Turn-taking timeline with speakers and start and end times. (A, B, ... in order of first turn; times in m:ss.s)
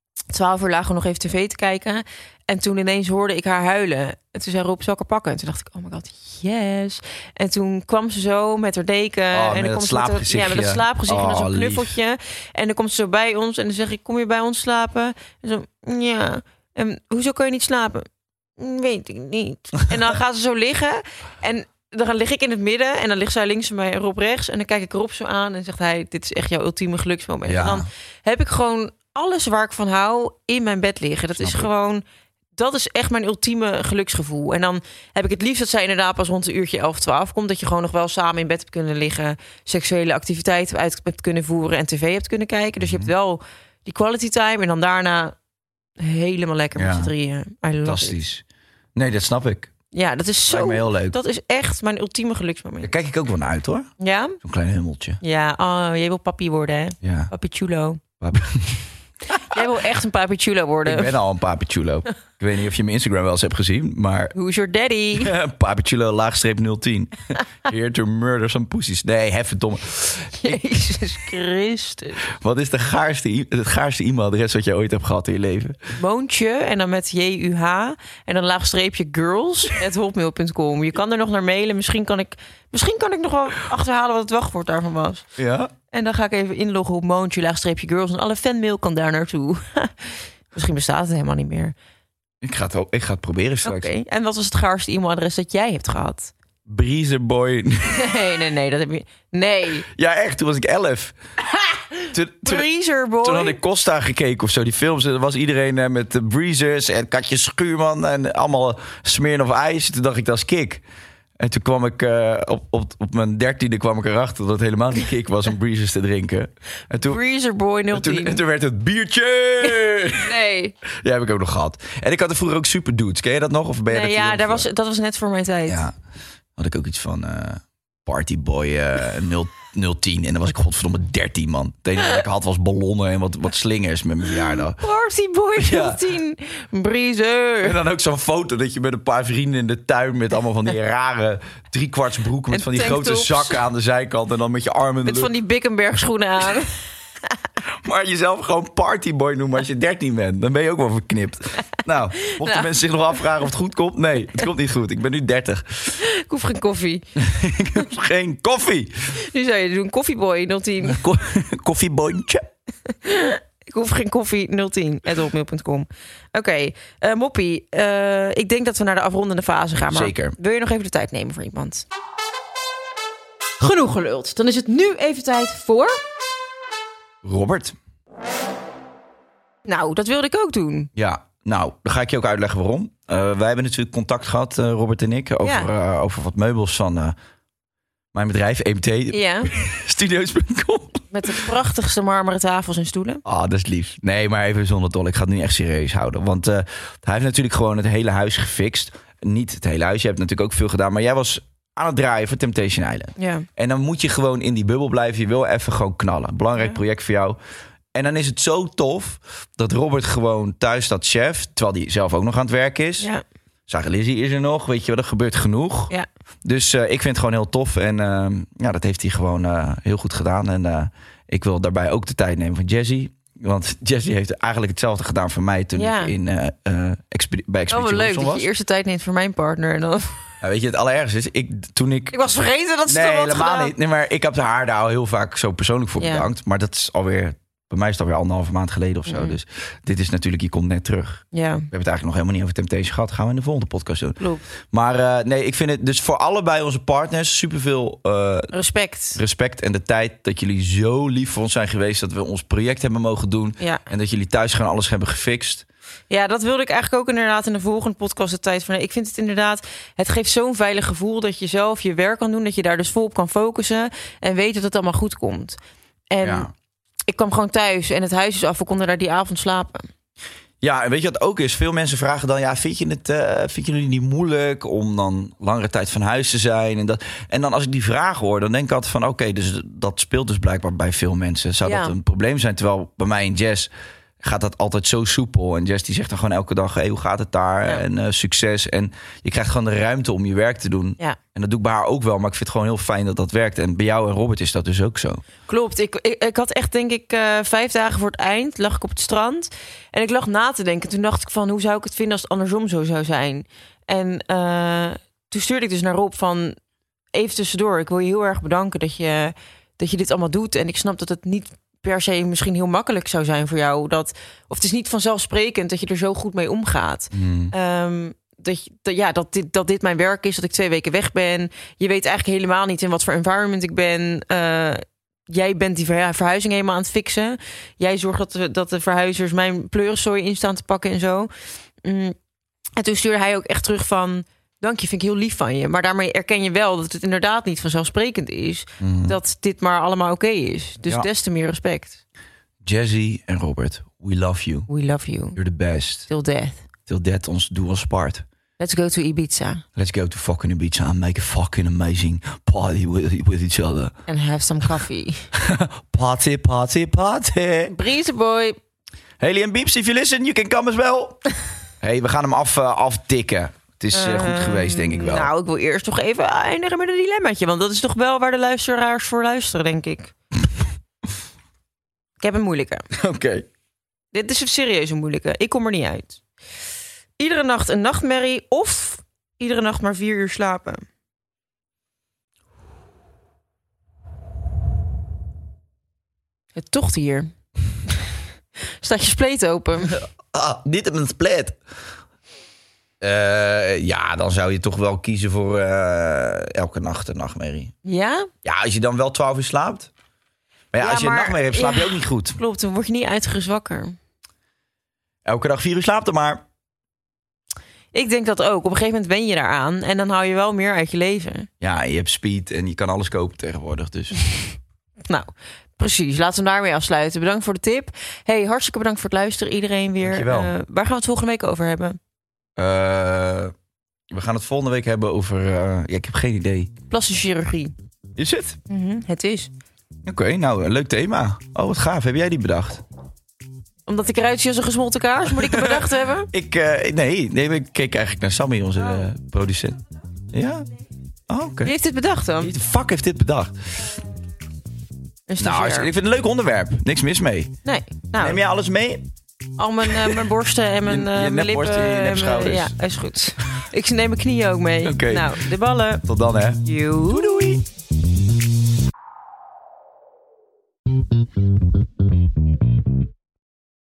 0:00.3-0:18.1 A
0:09.3-0:11.9 B
0:18.6-0:32.0 A
0:27.5-0:27.9 B
0:31.4-0:31.7 B
0:32.6-0:45.4 A
0:42.8-0:43.1 B
0:46.0-0:48.2 A
0:46.8-0:47.1 B
0:47.8-0:48.4 B
0:49.0-0:49.7 B
0:49.9-0:52.9 A
0:50.5-0:51.2 B
0:52.8-0:53.9 B
0:54.0-0:54.4 A
0:54.4-0:55.2 B
0:55.2-0:58.0 A
0:57.0-0:57.3 B
0:58.2-0:59.6 B
0:59.5-1:01.2 A
1:00.8-1:04.3 B
1:04.4-1:05.3 A
1:05.2-1:10.6 B
1:10.4-1:12.2 A
1:12.3-1:15.9 B
1:16.0-1:25.2 A
1:25.4-1:25.7 B
1:25.9-1:31.7 A
1:32.4-1:33.9 B
1:33.6-1:36.3 A
1:36.7-1:38.1 B
1:37.9-1:39.9 A
1:39.9-1:41.2 B
1:42.0-1:43.6 A
1:42.1-1:42.7 B
1:43.2-1:50.8 B
1:51.4-1:57.2 B
1:56.9-1:58.4 A
1:57.9-2:00.4 B
2:00.2-2:00.8 A
2:00.9-2:04.7 B
2:03.9-2:05.8 A
2:05.7-2:06.0 B
2:06.6-2:14.8 B
2:14.8-2:17.8 A
2:15.6-2:16.0 B
2:17.6-2:25.3 B
2:22.5-2:23.6 A
2:25.0-2:26.8 A
2:27.8-2:36.0 B
2:32.2-2:32.7 A
2:36.0-2:37.1 A
2:37.2-2:39.2 B
2:39.2-2:41.0 A
2:40.8-2:42.5 B
2:43.0-2:51.9 A
2:49.9-2:50.4 B
2:53.6-2:56.0 A
2:57.2-2:57.8 B
2:59.6-3:00.9 A
3:01.0-3:07.2 B
3:05.4-3:05.7 A
3:08.1-3:11.3 B
3:09.1-3:09.5 A
3:11.1-3:13.2 A
3:13.2-3:27.4 B
3:23.2-3:23.5 A
3:27.9-3:33.1 B
3:33.7-3:35.9 B
3:36.4-3:48.5 B
3:45.8-3:46.2 A
3:47.7-3:50.2 A
3:50.4-3:52.2 B
3:52.1-3:53.8 A
3:52.9-4:08.5 B
3:56.0-3:56.3 A
3:59.1-3:59.4 A
4:01.3-4:01.7 A
4:08.5-4:09.2 A
4:09.2-4:15.6 B
4:16.1-4:25.6 A
4:26.1-4:26.5 A
4:26.2-4:26.5 B
4:27.1-4:29.9 A
4:30.6-4:43.7 B
4:41.6-4:41.9 A
4:44.2-4:55.2 B
4:55.5-5:06.6 A
5:07.1-5:31.3 A
5:17.1-5:17.5 B
5:31.8-5:32.2 A
5:32.8-5:42.0 A
5:38.8-5:39.2 B
5:42.6-5:44.7 B
5:44.7-5:45.4 A
5:45.4-5:46.1 B
5:46.1-5:46.7 A
5:46.9-5:48.2 B
5:48.6-5:49.6 A
5:49.8-5:54.0 B
5:54.1-5:55.3 A
5:55.4-5:57.8 B
5:57.7-5:58.6 A
5:59.2-6:01.2 B
6:01.8-6:05.3 B
6:03.9-6:10.1 A
6:12.2-6:12.9 A
6:13.0-6:13.5 B
6:14.1-6:16.2 A
6:17.2-6:20.8 A
6:26.6-6:27.3 A
6:28.6-6:30.0 A
6:29.8-6:31.6 B
6:33.0-6:37.7 B
6:37.8-6:38.3 A
6:38.4-6:39.9 B
6:40.7-6:42.4 B
6:40.8-6:44.0 A
6:45.2-6:46.4 B
6:47.9-6:51.5 A
6:51.6-6:54.2 B
6:55.1-7:02.0 A
7:00.0-7:00.5 B
7:02.6-7:03.5 B
7:04.1-7:06.7 B
7:06.9-7:07.7 A
7:08.2-7:08.6 B
7:08.7-7:09.5 A
7:10.0-7:12.8 B
7:13.9-7:16.3 A
7:15.3-7:19.8 B
7:20.3-7:20.7 B
7:21.3-7:21.7 B
7:21.6-7:22.5 A
7:22.4-7:23.6 B
7:25.3-7:25.9 A
7:25.4-7:27.5 B
7:27.6-7:28.4 A
7:28.2-7:29.1 B
7:29.6-7:36.1 A
7:30.8-7:32.7 B
7:34.8-7:35.4 B
7:36.0-7:37.7 B
7:36.6-7:37.4 A